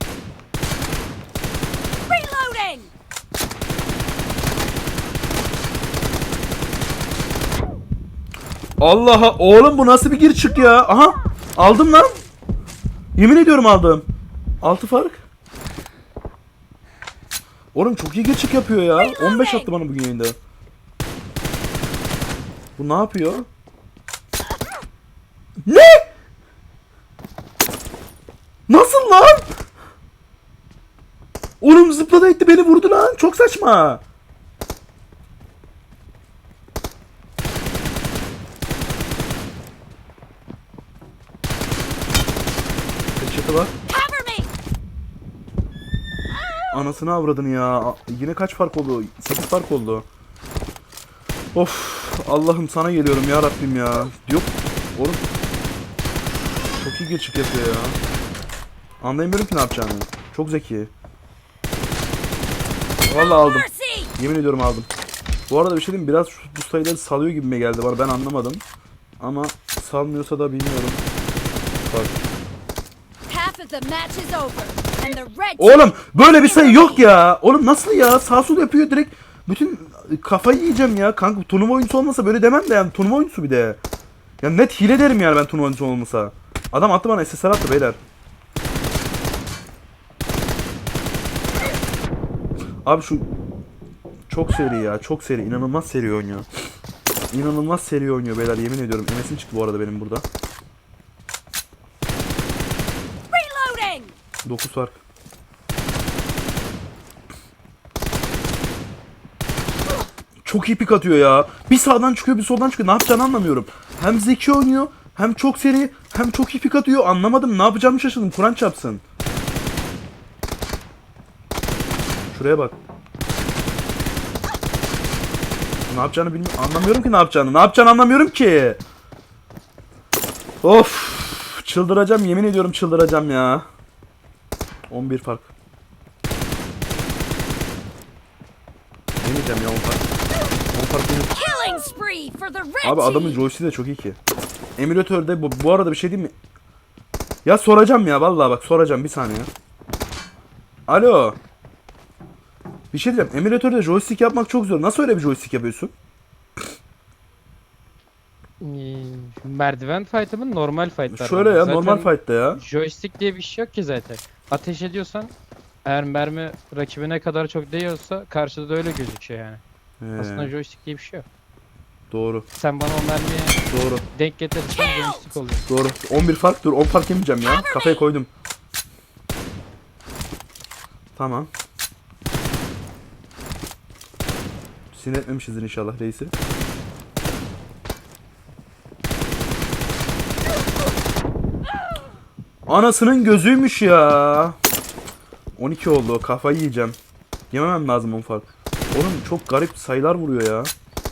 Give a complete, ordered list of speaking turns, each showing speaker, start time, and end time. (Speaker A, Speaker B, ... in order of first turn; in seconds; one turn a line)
Speaker A: 2.0-2.9
Speaker B: 8.8-12.2
Speaker B: 13.2-14.0
Speaker B: 14.6-15.2
Speaker B: 17.7-20.4
Speaker B: 22.8-23.5
Speaker B: 25.6-26.0
Speaker B: 28.7-29.4
Speaker B: 31.6-34.0
Speaker B: 43.2-43.7
Speaker A: 43.9-44.5
Speaker B: 46.7-50.0
Speaker B: 51.5-55.2
Speaker B: 56.8-58.0
Speaker B: 59.0-60.9
Speaker B: 63.0-64.9
Speaker A: 63.0-64.1
Speaker B: 65.5-68.6
Speaker B: 69.2-71.0
Speaker B: 71.8-72.1
Speaker A: 73.3-75.8
Speaker B: 75.6-83.8
Speaker A: 76.5-76.9
Speaker B: 84.4-88.0
Speaker B: 92.8-93.3
Speaker B: 94.3-96.5
Speaker B: 97.3-100.2
Speaker A: 103.3-104.1
Speaker B: 104.4-105.0
Speaker B: 110.4-119.0
Speaker B: 122.3-122.8
Speaker B: 125.9-128.8
Speaker B: 130.6-133.7
Speaker B: 134.9-135.5
Speaker B: 139.2-140.0
Speaker B: 140.7-141.3
Speaker A: 141.3-143.4
Speaker B: 142.8-144.2
Speaker B: 144.8-146.3
Speaker B: 147.4-149.5
Speaker B: 150.9-151.4
Speaker B: 152.9-155.9
Speaker C: 158.6-165.3
Speaker B: 161.1-162.6
Speaker C: 165.8-169.6
Speaker B: 170.0-170.5
Speaker C: 170.2-171.2
Speaker B: 172.1-172.4
Speaker C: 172.5-175.7
Speaker B: 173.7-174.0
Speaker B: 175.7-178.3
Speaker B: 181.2-181.5
Speaker B: 184.9-186.3
Speaker B: 192.7-194.6
Speaker B: 195.6-197.0
Speaker B: 197.5-200.7